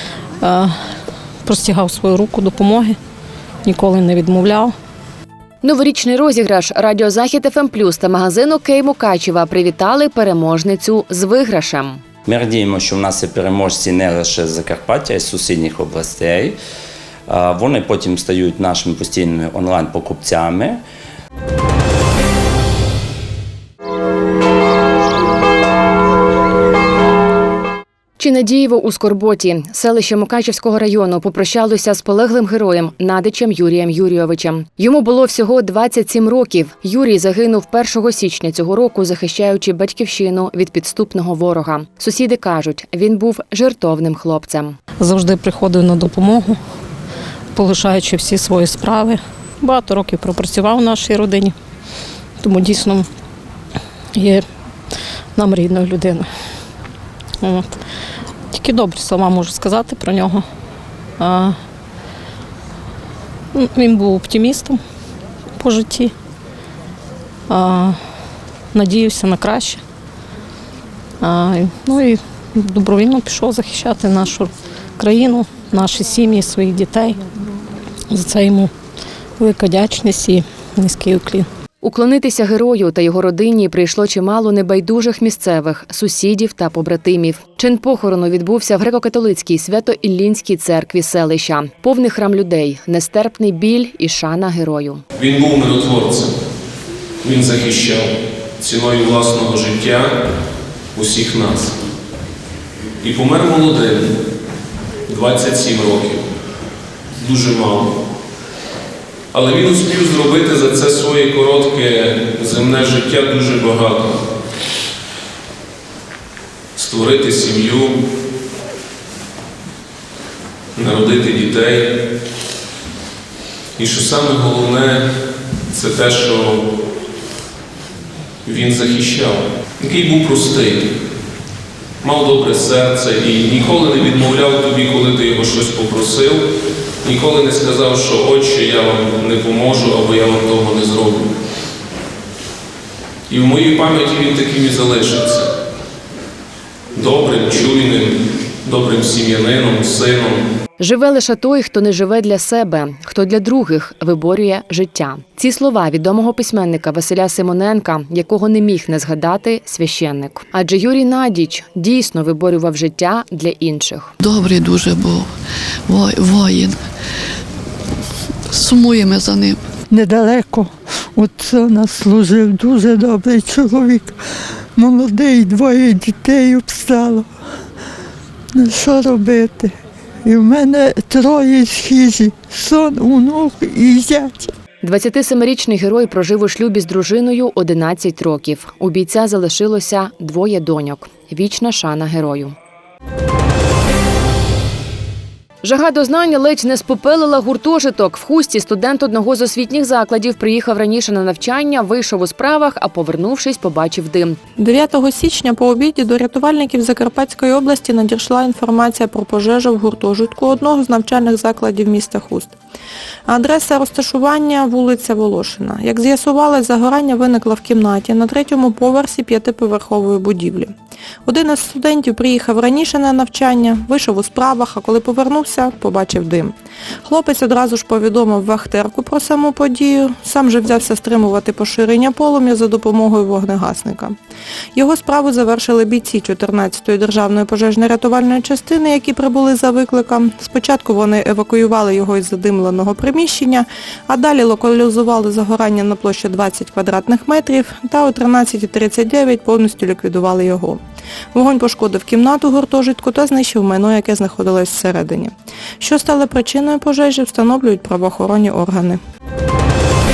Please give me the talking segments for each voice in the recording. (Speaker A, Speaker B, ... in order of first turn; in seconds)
Speaker A: 0.4-0.7, 1.4-3.0, 3.6-4.7, 45.0-46.6, 47.5-51.5, 52.4-53.1, 54.1-54.4, 55.4-56.3, 57.4-57.7, 58.5-60.5, 61.2-61.5, 63.5-64.8, 65.6-66.1, 67.5-68.0, 68.7-69.8, 71.2-77.2, 78.1-78.7, 79.4-81.5
Speaker B: 5.6-12.0, 28.2-44.8, 81.8-95.0, 150.8-164.1, 184.8-192.5, 195.6-204.4
Speaker C: 12.2-16.6, 17.3-20.8
Speaker D: 95.2-96.3, 97.2-98.1, 98.6-100.1, 101.0-101.7, 103.0-104.1, 105.1-106.2, 107.2-107.9, 109.3-114.1, 116.8-117.9, 120.8-121.8, 123.8-125.0, 125.7-126.6, 128.4-130.8, 132.0-136.4, 137.0-141.2, 143.3-145.4, 147.0-148.1, 148.7-150.4
Speaker E: 164.2-165.3, 165.9-166.8, 168.5-169.6
Speaker F: 169.9-174.2, 174.8-177.3, 178.5-184.5
Speaker G: 204.6-212.6, 213.3-220.7, 221.2-234.2, 234.7-250.8, 251.3-259.0